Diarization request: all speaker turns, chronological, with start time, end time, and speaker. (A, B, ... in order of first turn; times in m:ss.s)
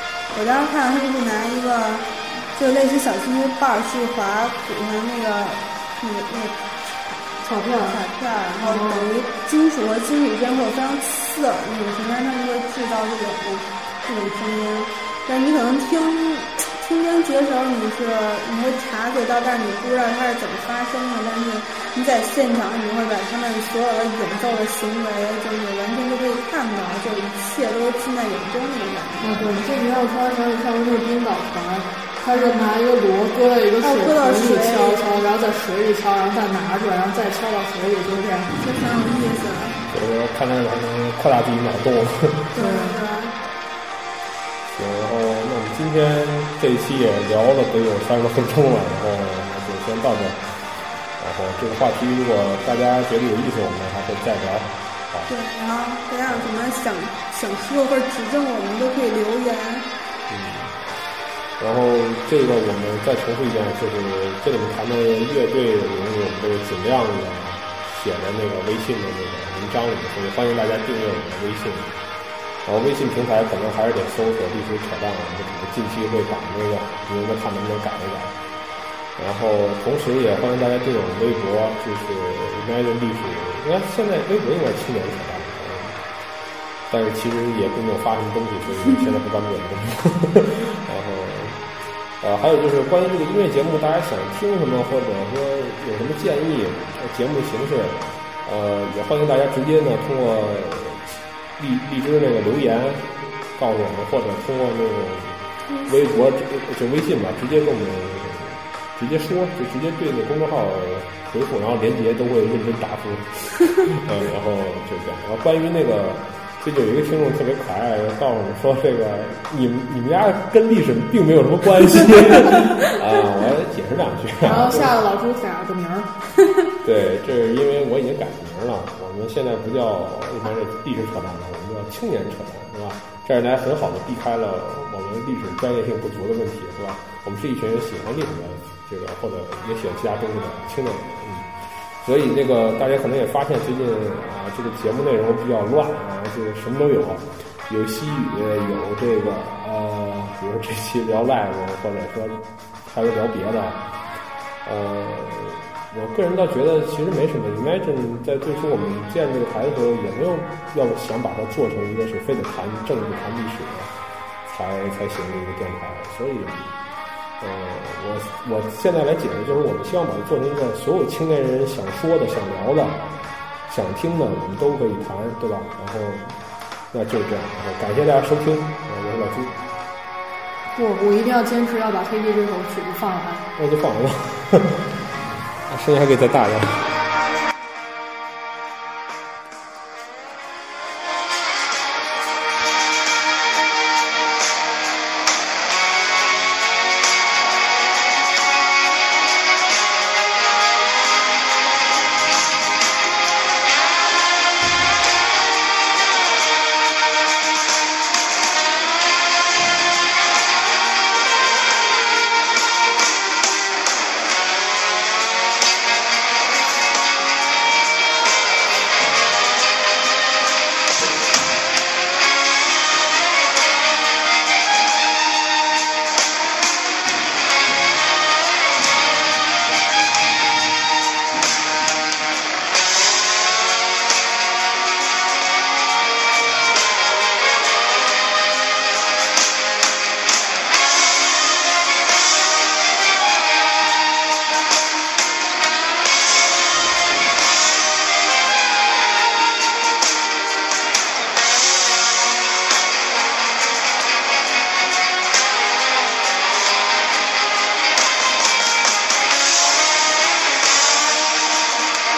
0:00.3-0:07.2 A
0:07.4-0:08.0 B
0:07.8-0:29.6 A
0:08.6-0:09.1 B
0:29.2-0:38.6 B
0:32.3-0:32.7 A
0:33.8-0:35.2 A
0:38.6-0:39.8 A
0:39.9-0:42.6 C
0:42.5-0:43.4 A
0:42.6-0:43.0 B
0:44.7-0:50.6 C
0:51.2-0:55.3 C
0:55.3-0:59.9 A
1:00.3-1:00.8 C
1:01.6-1:11.9 C
1:12.6-1:18.4 C
1:19.2-1:26.0 C
1:26.9-1:31.7 C
1:32.2-1:45.4 C
1:45.7-1:46.3 A
1:45.9-2:05.0 C
2:04.4-2:06.7 B
2:06.8-2:33.9 C
2:34.6-2:43.9 C
2:44.4-2:46.7 C
2:47.4-2:53.1 C
2:53.7-2:56.4 C
2:56.9-2:59.6 C
3:00.7-3:03.5 B
3:03.6-3:07.0 C